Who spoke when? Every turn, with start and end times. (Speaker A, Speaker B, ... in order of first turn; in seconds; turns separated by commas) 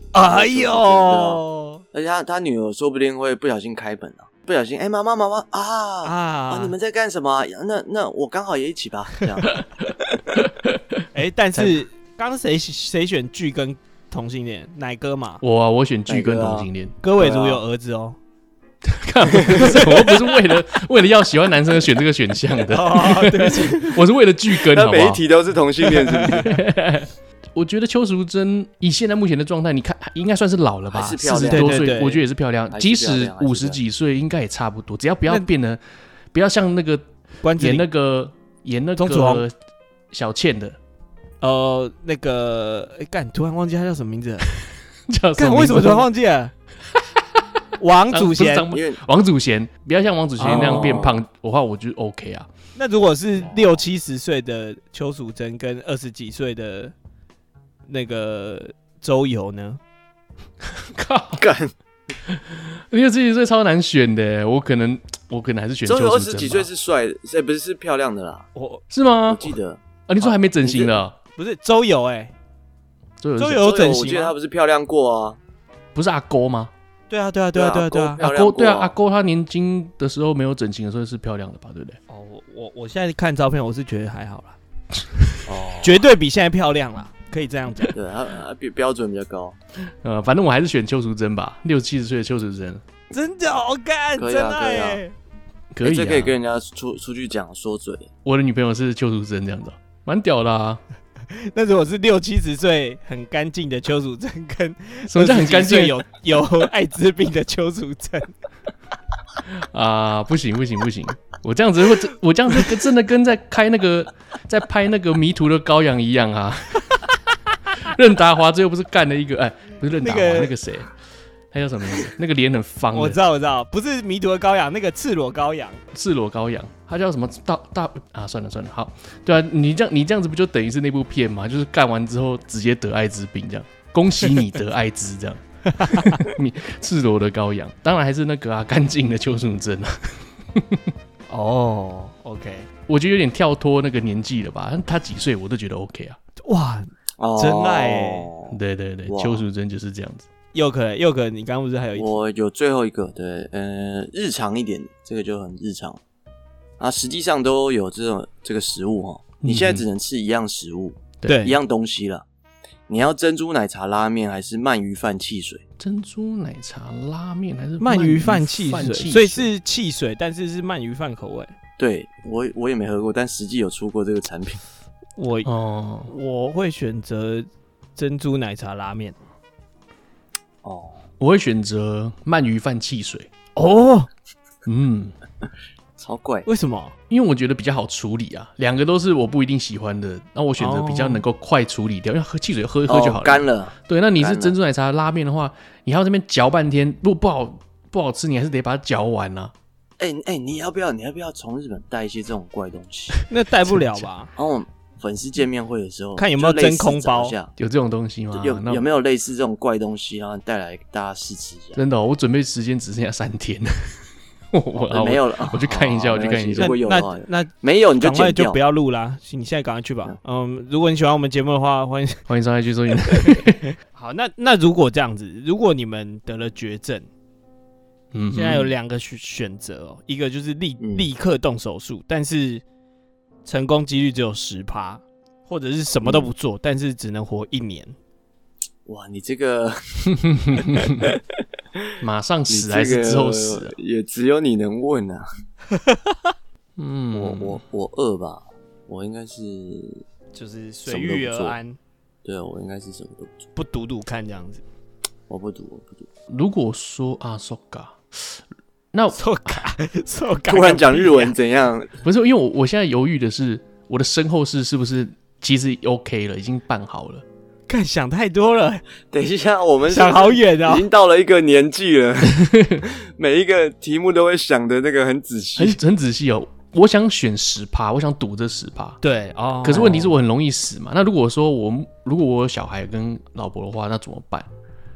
Speaker A: 0.1-1.8, Speaker B: 0.1-9.6, Speaker A: 6.0-6.7, Speaker B: 10.1-10.4, Speaker C: 10.4-11.8, Speaker A: 11.1-15.4, Speaker C: 15.4-16.9, Speaker B: 16.1-17.6, Speaker A: 17.0-18.2, Speaker C: 18.8-25.2, Speaker B: 19.4-19.6, Speaker A: 19.6-19.9, Speaker A: 22.7-24.0, Speaker B: 24.6-26.6, Speaker C: 26.3-35.8, Speaker B: 30.9-32.0, Speaker A: 31.4-32.2, Speaker B: 32.7-33.8, Speaker C: 36.3-37.1, Speaker A: 37.4-37.9, Speaker C: 37.6-39.5, Speaker A: 39.0-39.4, Speaker C: 40.1-40.8, Speaker A: 41.4-44.5, Speaker C: 45.1-46.1, Speaker A: 45.4-46.5, Speaker A: 47.8-48.7, Speaker C: 48.1-52.5, Speaker B: 48.7-49.0, Speaker A: 50.4-51.1, Speaker B: 50.4-51.2, Speaker A: 52.8-56.9, Speaker B: 53.4-53.8, Speaker A: 57.9-59.8, Speaker C: 60.8-61.4, Speaker B: 61.4-61.7, Speaker C: 62.2-66.7, Speaker B: 65.8-68.5, Speaker A: 68.5-68.8, Speaker C: 68.9-69.6, Speaker B: 69.3-71.0, Speaker C: 70.1-71.2, Speaker A: 71.3-72.3, Speaker C: 73.2-73.7, Speaker A: 73.4-74.3, Speaker B: 73.6-75.4, Speaker C: 75.9-76.7, Speaker A: 77.1-78.2, Speaker B: 77.5-78.9, Speaker C: 78.2-82.0, Speaker A: 82.1-84.6, Speaker B: 85.5-86.0, Speaker A: 85.8-88.0, Speaker B: 87.9-89.5, Speaker C: 89.8-92.8, Speaker A: 93.1-95.1, Speaker B: 94.2-95.0, Speaker C: 95.7-96.3, Speaker B: 95.8-98.1, Speaker C: 98.2-100.8, Speaker A: 101.3-108.3, Speaker C: 105.1-106.0, Speaker C: 109.5-117.2, Speaker C: 117.7-120.9, Speaker A: 120.0-120.5, Speaker C: 121.5-123.2, Speaker A: 122.9-125.8, Speaker C: 125.9-140.9, Speaker A: 135.7-136.2, Speaker A: 141.3-142.7, Speaker C: 142.9-146.2, Speaker A: 146.4-148.3, Speaker B: 147.2-148.6, Speaker C: 148.5-150.3, Speaker B: 149.1-149.4, Speaker A: 150.5-152.2, Speaker B: 151.9-156.0, Speaker B: 156.8-162.2, Speaker C: 159.4-159.8, Speaker A: 161.2-161.6, Speaker B: 162.9-165.6, Speaker C: 165.8-169.5, Speaker A: 167.8-171.5, Speaker B: 171.8-174.6, Speaker A: 175.2-175.5, Speaker C: 175.4-176.1, Speaker A: 176.1-179.2, Speaker B: 180.6-181.0, Speaker C: 181.2-183.3, Speaker A: 183.6-184.1, Speaker C: 184.7-185.1, Speaker B: 186.0-186.5, Speaker A: 186.4-186.9, Speaker C: 187.1-199.5, Speaker A: 190.6-191.2, Speaker B: 192.9-194.6, Speaker B: 200.0-203.2, Speaker A: 203.3-204.3, Speaker C: 203.7-204.1, Speaker B: 204.3-207.5, Speaker A: 206.2-207.3, Speaker C: 207.6-208.8, Speaker B: 208.3-211.8, Speaker C: 211.8-216.8, Speaker B: 214.8-218.6, Speaker A: 216.6-222.2, Speaker C: 222.3-223.7, Speaker A: 223.9-227.1, Speaker C: 228.1-228.7, Speaker A: 228.3-232.6, Speaker B: 230.8-231.1, Speaker A: 233.4-237.9, Speaker B: 236.0-236.3, Speaker B: 238.8-241.2, Speaker C: 240.2-241.1, Speaker C: 242.0-243.7, Speaker B: 242.5-245.2, Speaker A: 245.8-246.2, Speaker C: 246.8-247.6, Speaker B: 247.1-250.0, Speaker A: 250.3-251.8, Speaker B: 250.8-251.6, Speaker B: 252.2-253.4, Speaker A: 253.6-254.6, Speaker B: 255.3-256.1, Speaker C: 256.3-258.4, Speaker C: 258.9-259.6, Speaker A: 259.1-261.3, Speaker B: 260.5-261.9, Speaker C: 262.0-267.2, Speaker A: 267.7-268.8, Speaker B: 269.1-275.8, Speaker A: 269.9-270.9, Speaker C: 272.3-272.8, Speaker C: 275.6-279.0, Speaker A: 279.0-280.1, Speaker C: 279.6-284.5